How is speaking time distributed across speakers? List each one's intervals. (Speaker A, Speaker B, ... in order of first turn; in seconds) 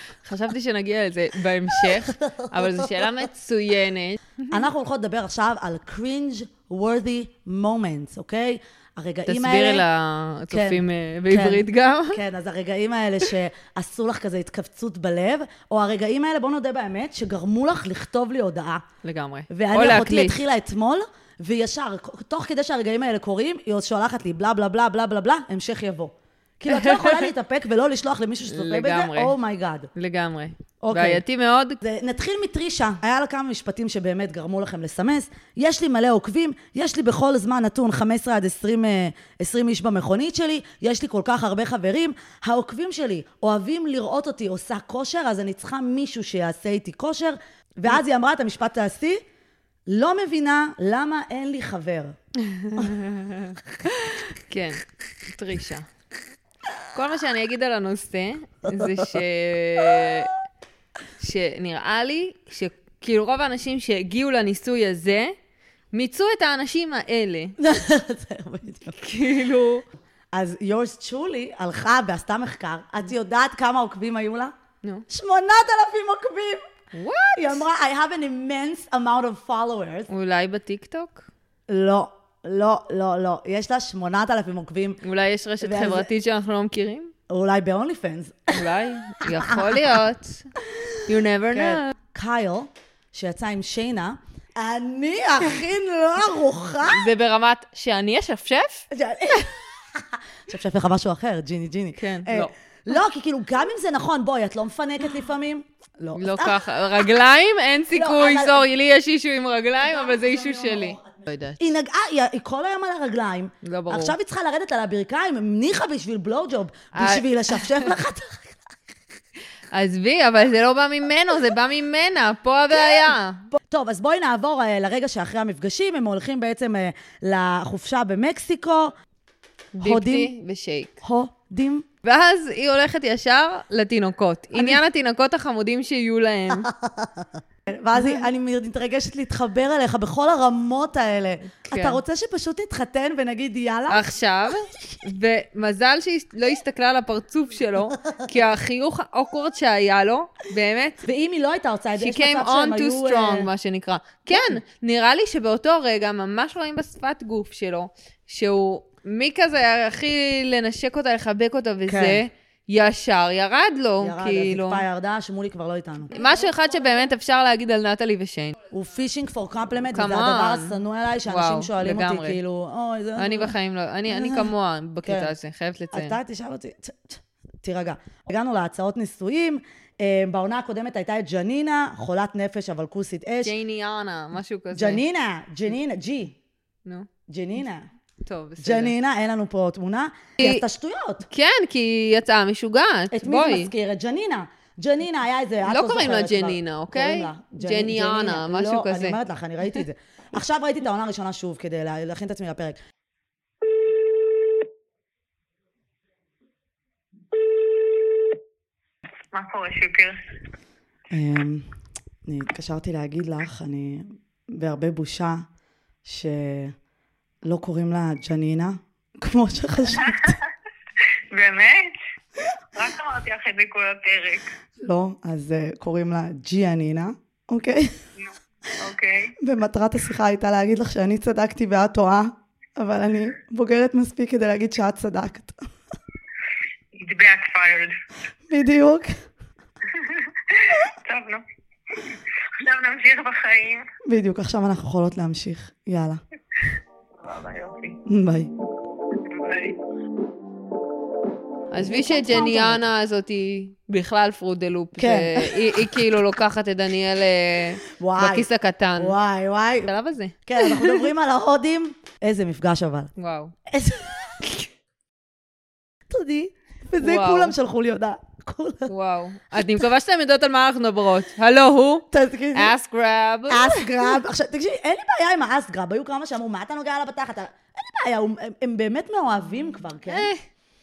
Speaker A: 0.1-4.7, 9.2-12.2, 19.0-20.4, 26.7-27.3, 28.4-29.4, 29.9-31.8, 52.5-54.8, 55.3-55.9, 56.9-60.3, 61.2-65.3, 65.9-67.5, 69.0-69.8, 76.9-77.6, 80.1-81.2, 85.0-87.1, 88.5-90.5, 91.0-91.9, 96.9-98.8, 102.0-102.5, 106.1-111.6, 113.6-114.2, 116.9-117.9, 119.7-123.4, 129.7-130.9, 132.0-136.7, 137.9-138.3, 141.5-142.0, 143.9-151.0, 152.0-164.8, 166.1-168.6, 169.9-172.4, 173.2-176.2, 183.4-185.0, 188.2-188.9, 190.4-190.6, 191.3-193.7, 195.6-199.2, 251.7-259.2, 259.8-261.0, 263.1-263.5, 267.0-267.5, 268.9-274.2, 280.1-280.4
Speaker B: 1.9-3.1, 4.5-9.8, 10.5-18.8, 19.5-29.9, 30.8-31.2, 31.8-49.2, 49.9-52.1, 67.6-69.0, 70.3-74.5, 75.1-76.6, 77.3-80.1, 81.7-85.0, 85.6-86.1, 87.3-88.6, 89.4-89.8, 91.5-97.1, 98.9-107.0, 107.9-108.7, 109.8-118.6, 122.7-128.9, 129.8-130.3, 131.0-131.8, 134.5-134.8, 136.6-144.1, 151.0-153.5, 154.3-154.6, 161.9-162.2, 164.0-166.3, 168.7-174.5, 175.0-175.3, 175.9-183.6, 184.7-186.3, 187.3-187.9, 188.6-191.3, 193.1-202.8, 211.1-211.7, 212.2-215.4, 216.0-216.7, 217.4-220.4, 224.8-228.0, 229.4-235.6, 238.5-239.1, 244.1-246.2, 248.1-248.5, 251.8-252.9, 254.9-256.1, 258.0-259.9, 260.4-263.1, 263.7-264.5, 266.1-268.9, 272.1-272.7, 273.5-280.3
Speaker C: 209.3-210.2, 221.3-221.9, 222.8-224.4, 228.8-229.3, 236.9-237.9, 239.9-241.4, 242.6-243.8, 247.2-247.9, 249.3-249.8